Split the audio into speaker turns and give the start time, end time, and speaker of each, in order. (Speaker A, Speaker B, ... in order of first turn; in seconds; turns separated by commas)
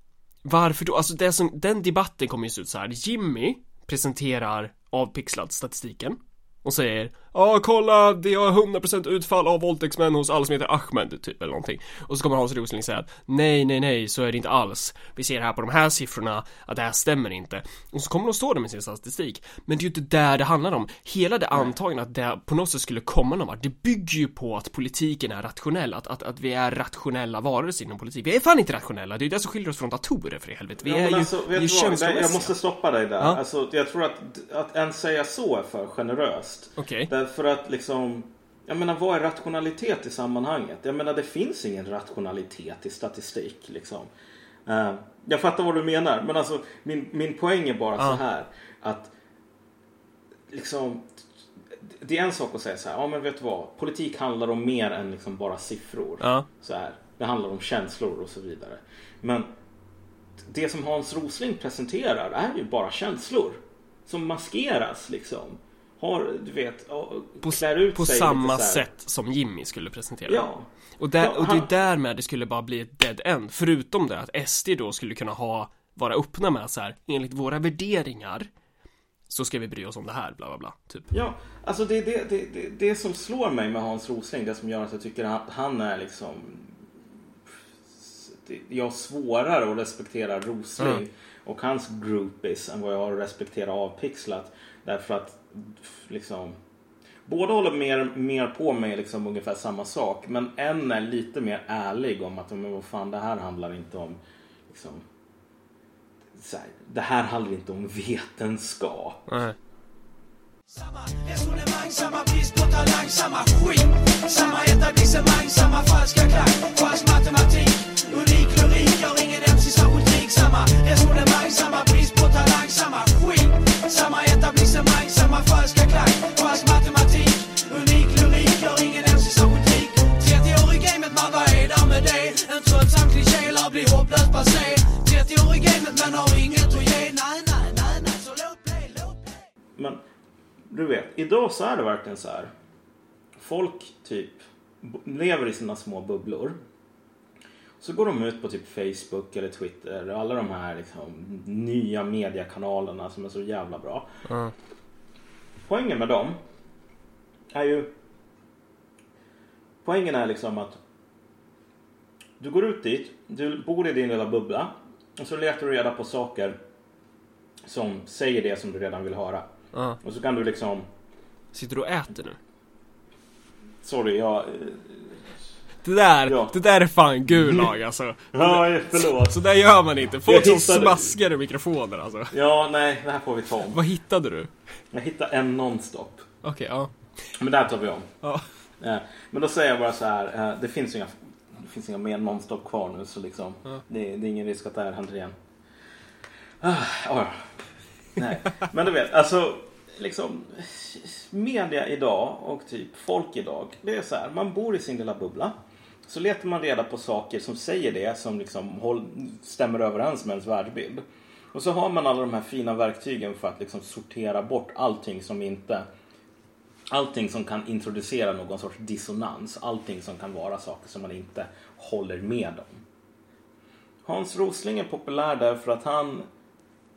Speaker A: 0.5-32.5, Speaker B: 30.8-44.1, Speaker A: 36.8-37.1, Speaker B: 44.7-49.1, Speaker B: 50.5-51.2, Speaker B: 51.8-59.5, Speaker A: 56.2-56.5, Speaker B: 60.4-68.9, Speaker A: 67.4-78.5, Speaker B: 70.3-71.7, Speaker A: 79.3-81.1, Speaker B: 81.1-86.8, Speaker B: 88.0-96.6, Speaker A: 90.8-91.0, Speaker B: 97.3-105.0, Speaker B: 106.3-109.3, Speaker A: 109.3-109.6, Speaker C: 110.7-139.4, Speaker B: 140.7-142.5, Speaker B: 143.4-146.6, Speaker B: 147.8-154.1, Speaker A: 154.3-154.5, Speaker B: 155.7-156.4, Speaker B: 157.5-157.9, Speaker B: 159.8-160.8, Speaker B: 162.4-166.6, Speaker B: 167.7-169.5, Speaker A: 169.7-170.0, Speaker B: 170.0-170.9, Speaker A: 171.5-172.4, Speaker B: 173.8-175.2, Speaker A: 175.8-182.3, Speaker B: 176.3-176.6, Speaker B: 177.3-177.7, Speaker B: 178.3-179.4, Speaker B: 180.2-181.2, Speaker B: 182.3-183.8, Speaker A: 183.7-184.5, Speaker B: 184.9-186.3, Speaker A: 186.4-186.9, Speaker B: 187.3-188.1, Speaker B: 188.8-195.3, Speaker B: 196.6-197.5, Speaker B: 198.1-205.6, Speaker B: 206.1-215.9, Speaker B: 216.9-222.8, Speaker B: 224.1-226.3